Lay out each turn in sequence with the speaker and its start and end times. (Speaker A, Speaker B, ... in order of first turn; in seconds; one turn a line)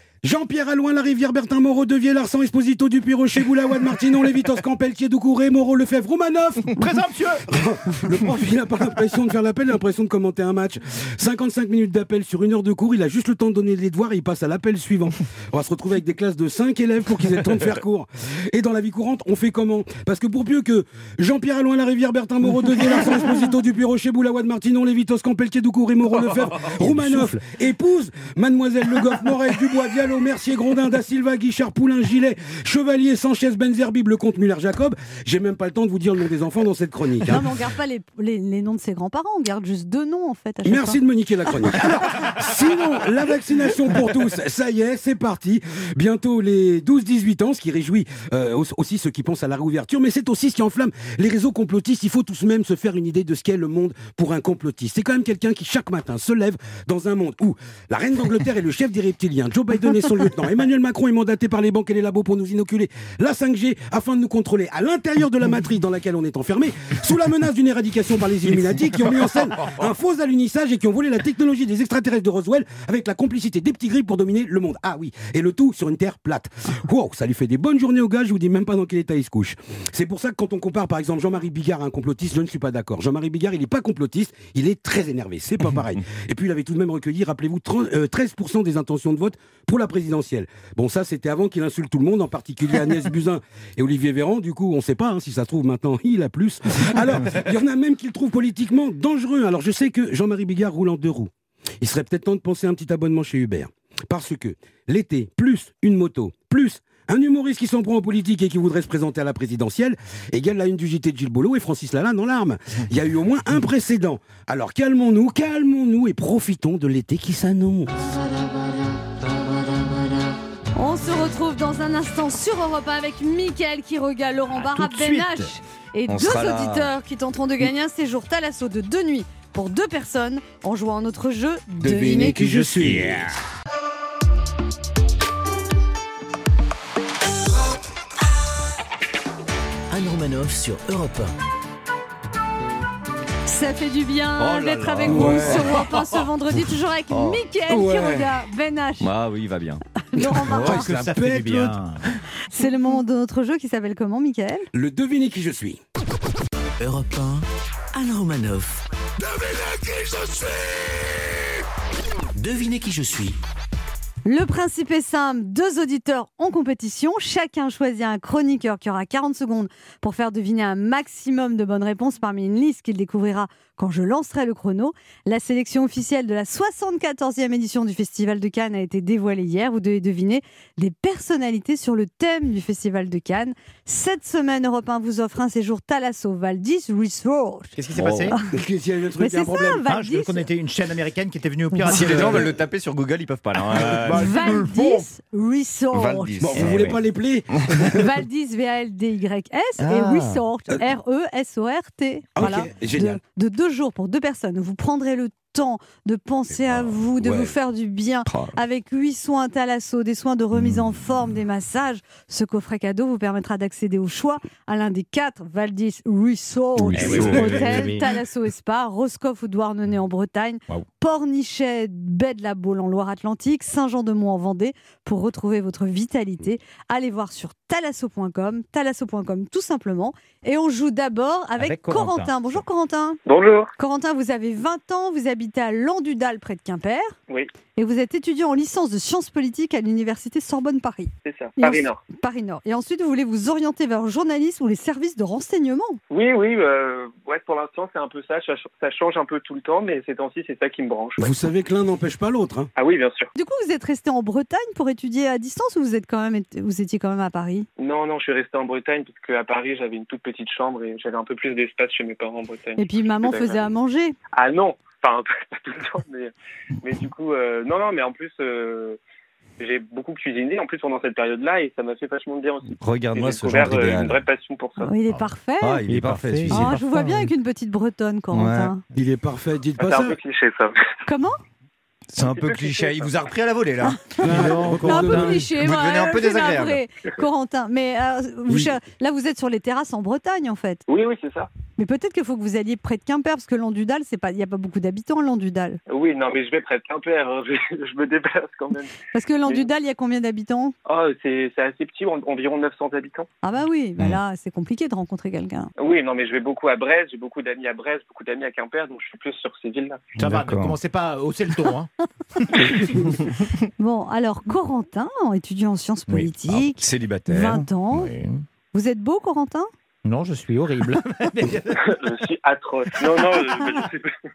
Speaker A: 0.2-6.8
Speaker B: 6.8-7.4
Speaker A: 7.5-37.5
Speaker C: 26.9-27.2
Speaker D: 37.2-41.0
Speaker A: 40.6-117.9
Speaker D: 120.8-132.7
Speaker C: 124.5-125.5
Speaker C: 126.1-126.9
Speaker A: 131.8-133.3
Speaker C: 132.8-133.1
Speaker E: 139.9-141.3
Speaker D: 143.4-149.1
Speaker C: 144.4-145.9
Speaker A: 145.1-145.7
Speaker C: 147.1-147.4
Speaker A: 147.7-148.3
Speaker C: 149.0-149.8
Speaker D: 150.1-150.9
Speaker A: 150.2-151.8
Speaker B: 150.4-152.0
Speaker D: 152.5-154.7
Speaker A: 154.7-155.8
Speaker E: 156.8-158.8
Speaker E: 162.3-163.4
Speaker D: 164.3-187.8
Speaker B: 187.8-188.4
Speaker C: 187.9-188.3
Speaker A: 188.5-189.8
Speaker D: 189.2-190.5
Speaker B: 189.9-192.5
Speaker C: 191.8-194.6
Speaker A: 192.1-192.5
Speaker B: 193.8-194.6
Speaker D: 194.1-196.4
Speaker C: 195.9-197.0
Speaker A: 196.4-197.8
Speaker B: 196.6-197.0
Speaker D: 197.9-233.2
Speaker C: 199.8-200.4
Speaker A: 202.3-203.2
Speaker A: 207.2-207.5
Speaker C: 208.3-208.6
Speaker C: 216.8-217.9
Speaker B: 216.9-218.1
Speaker B: 231.6-232.6
Speaker F: 233.3-233.7
Speaker D: 233.8-237.2
Speaker D: 237.8-246.0
Speaker F: 241.2-242.0
Speaker F: 246.1-251.4
Speaker A: 251.2-252.7
Speaker F: 252.8-253.3
Speaker D: 253.3-257.7
Speaker F: 257.8-263.6
Speaker D: 262.8-264.2
Speaker F: 264.3-269.0
Speaker F: 269.6-274.9
Speaker C: 272.8-274.2
Speaker D: 274.8-275.8
Speaker C: 275.1-276.8
Speaker B: 275.9-276.7
Speaker D: 276.5-278.8
Speaker C: 278.3-278.8
Speaker A: 278.9-280.2
Speaker F: 279.8-280.7
Speaker D: 281.1-281.4
Speaker C: 282.1-284.1
Speaker F: 282.2-283.1
Speaker D: 283.8-290.8
Speaker A: 284.2-285.5
Speaker B: 284.2-285.3
Speaker C: 285.6-286.8
Speaker A: 288.5-288.7
Speaker F: 290.9-291.5
Speaker D: 291.8-295.8
Speaker F: 295.9-299.7
Speaker D: 299.1-300.7
Speaker F: 300.9-303.3
Speaker D: 303.4-305.7
Speaker F: 305.8-310.1
Speaker B: 310.2-313.0
Speaker C: 310.2-310.7
Speaker D: 313.8-318.1
Speaker C: 316.1-317.7
Speaker B: 317.4-318.4
Speaker D: 318.7-319.7
Speaker B: 320.1-321.8
Speaker F: 321.8-324.1